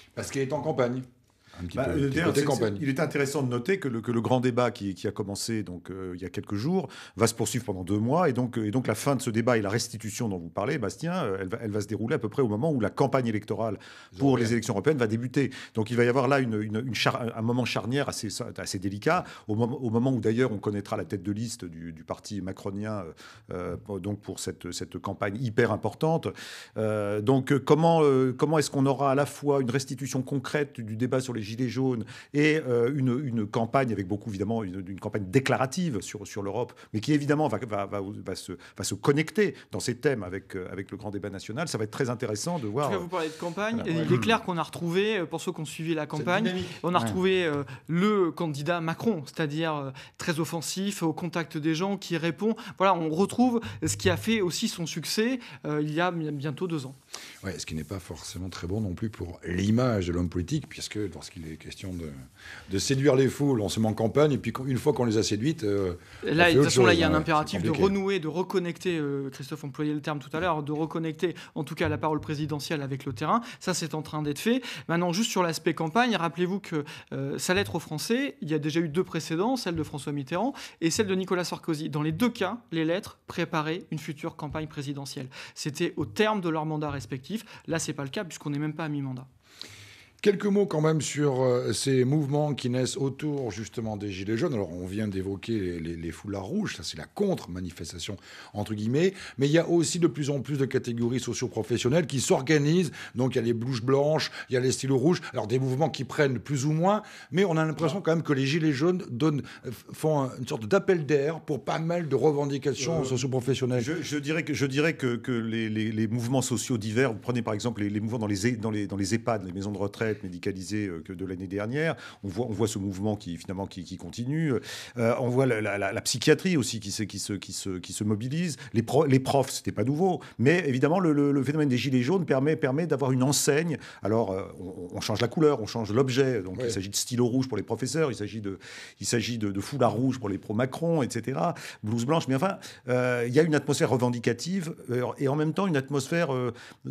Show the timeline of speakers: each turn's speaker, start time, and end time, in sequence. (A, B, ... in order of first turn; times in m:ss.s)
0:00.2-0:02.8 A
0:01.8-0:43.1 B
0:14.2-0:14.5 A
0:42.8-0:57.0 C
0:43.8-0:44.2 A
0:46.2-0:47.2 A
0:57.4-1:02.1 A
1:02.7-1:07.9 A
1:06.2-1:29.3 C
1:30.2-1:53.9 A
1:52.9-1:53.2 B
1:53.8-2:26.5 B